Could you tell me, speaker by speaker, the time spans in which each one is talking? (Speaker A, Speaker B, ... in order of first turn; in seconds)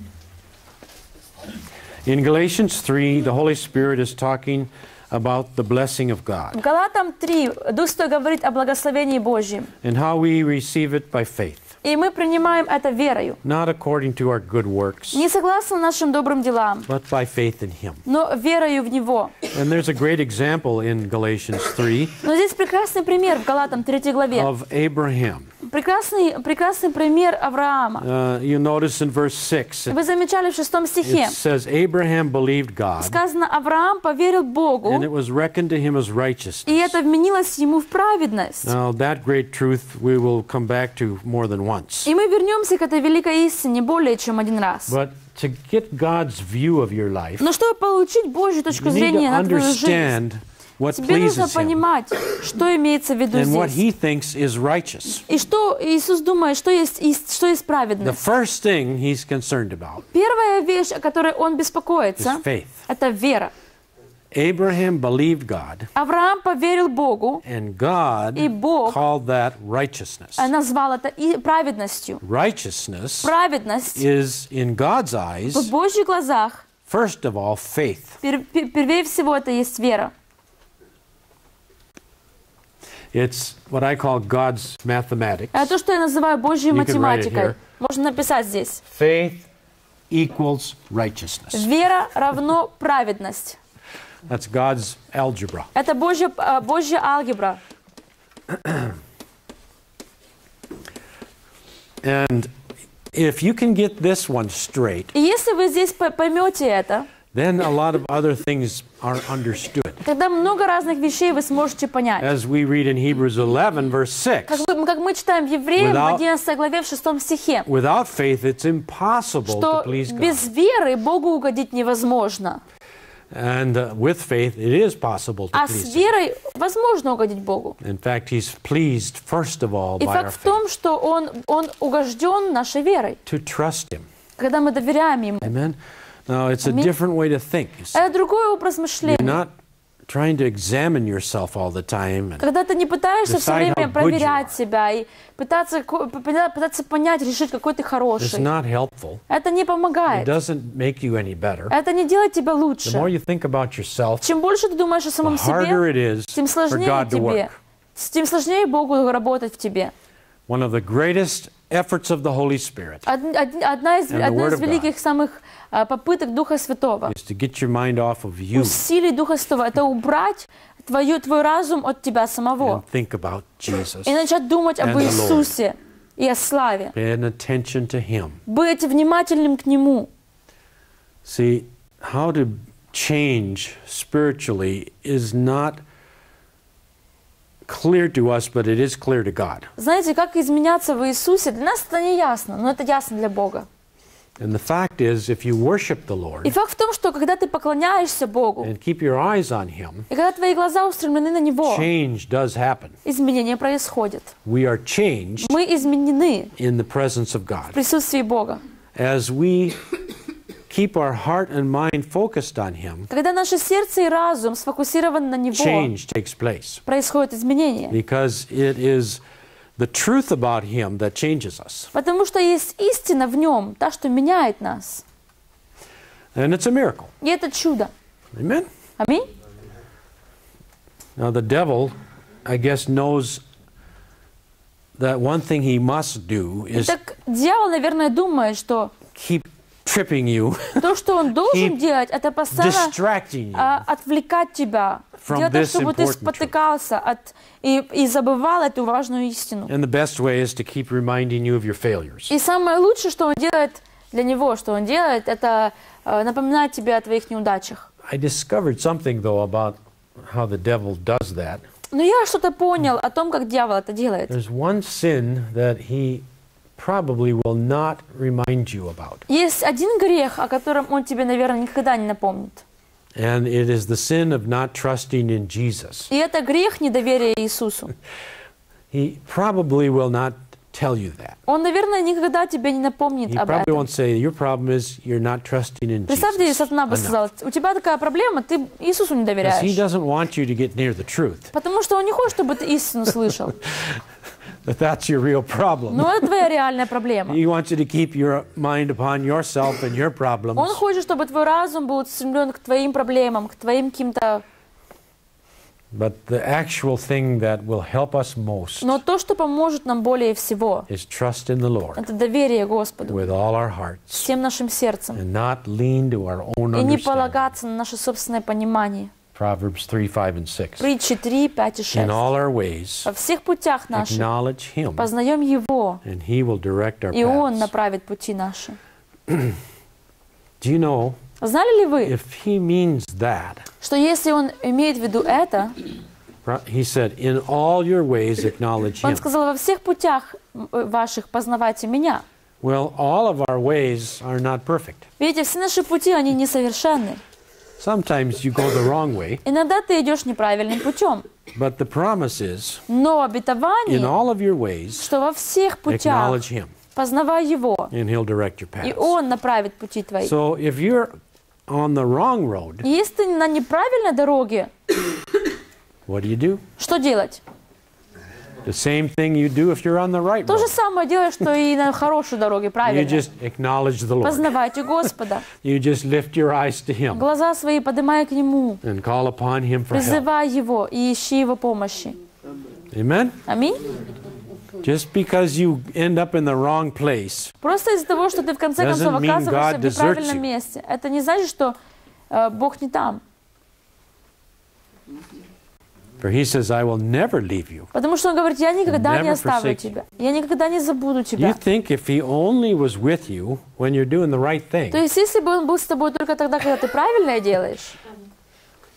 Speaker A: 2.0-6.6, 9.8-11.7, 13.4-15.2, 16.9-18.0, 19.5-22.2, 24.3-25.5, 28.0-30.0, 31.0-33.2, 34.8-36.9, 38.6-42.1, 44.9-47.5, 48.7-51.8, 53.3-55.2, 58.0-60.0, 62.2-62.9, 64.3-65.9, 67.4-70.5, 72.2-73.3, 73.9-75.7, 76.9-78.2, 83.1-85.7, 86.7-87.6, 88.9-89.5, 90.1-91.7, 94.2-95.7, 98.5-99.0, 102.0-102.5, 103.1-105.1, 107.3-110.0, 112.2-114.7, 115.8-116.2, 117.7-120.5, 123.3-126.1, 127.8-130.6, 133.2-134.1, 135.4-138.0, 139.0-139.5, 140.1-142.4, 143.2-144.6, 148.2-149.2, 150.1-151.7, 152.8-154.2, 155.2-157.5, 160.5-163.1, 164.1-164.9, 167.1-168.8, 172.6-174.2, 174.8-175.5, 176.9-178.4, 181.2-185.8, 187.7-189.7, 194.4-196.5, 198.6-200.1, 201.6-202.9, 204.4-205.6, 206.6-207.8, 208.9-209.8, 210.7-213.1, 215.5-216.8, 217.9-219.2, 219.8-221.9, 226.3-227.1, 228.3-228.7, 231.2-231.9, 232.4-233.4, 234.9-237.0, 239.1-241.8, 242.5-243.8, 245.2-246.5, 249.7-252.3, 258.0-261.6, 264.3-266.2, 266.8-269.2, 273.1-276.1, 278.9-281.4, 283.3-287.2, 289.4-291.5, 293.6-294.0, 294.6-296.2, 297.3-300.8, 305.9-309.0, 310.9-312.1, 313.1-314.3, 315.1-317.4, 319.3-320.9, 321.9-323.1, 323.9-325.1, 326.0-327.7, 329.3-329.6, 330.6-331.2, 332.0-333.6, 336.4-339.3, 342.6-345.1, 347.8-349.4, 351.5-352.8, 353.9-355.1, 355.9-356.7, 357.9-359.1, 360.2-361.1, 361.7-362.9, 366.1-366.6, 368.6-370.8, 372.8-374.5, 375.5-377.3, 378.8-380.2, 382.9-383.4, 384.8-387.5, 388.8-390.4, 396.2-397.9, 398.9-399.9, 401.4-405.0
Speaker B: 6.5-9.7, 11.8-13.4, 15.1-16.9, 18.0-19.3, 22.2-24.5, 25.6-28.0, 29.9-31.4, 33.0-35.0, 36.7-38.7, 42.0-44.9, 47.4-50.1, 50.9-53.8, 55.2-58.2, 60.1-63.5, 66.0-67.4, 68.3-69.0, 70.4-72.2, 73.2-74.0, 75.5-76.6, 78.2-80.1, 85.5-88.8, 91.5-93.6, 95.7-97.6, 105.1-107.1, 110.0-112.3, 114.5-117.7, 119.4-122.6, 125.5-127.8, 130.0-133.2, 134.4-135.5, 136.6-136.9, 137.9-139.4, 142.4-148.5, 149.3-150.3, 151.7-153.1, 154.2-155.8, 156.3-159.9, 163.1-167.1, 168.5-172.8, 174.0-176.9, 178.5-180.1, 189.8-193.7, 196.4-198.7, 200.1-201.8, 203.0-204.3, 205.4-206.5, 207.7-208.6, 213.1-215.9, 216.8-218.0, 221.9-225.0, 227.2-227.9, 229.0-229.3, 236.7-238.9, 240.8-243.0, 243.5-249.7, 252.3-257.9, 261.9-264.3, 269.3-272.6, 276.1-277.9, 281.5-283.9, 286.1-289.8, 291.5-293.6, 295.9-297.4, 300.6-304.4, 308.8-310.9, 311.9-313.2, 314.2-315.2, 316.7-319.1, 320.8-322.2, 323.0-324.2, 324.9-326.0, 327.1-328.8, 331.4-332.1, 333.8-335.7, 339.0-342.2, 345.2-347.2, 349.4-351.2, 352.9-354.1, 355.0-356.4, 356.9-357.9, 358.8-360.3, 362.8-364.7, 366.8-367.4, 370.4-373.2, 374.2-375.5, 377.1-378.8, 379.9-382.2, 383.4-383.8, 387.6-391.8, 392.3-393.2, 397.9-401.6, 404.9-408.0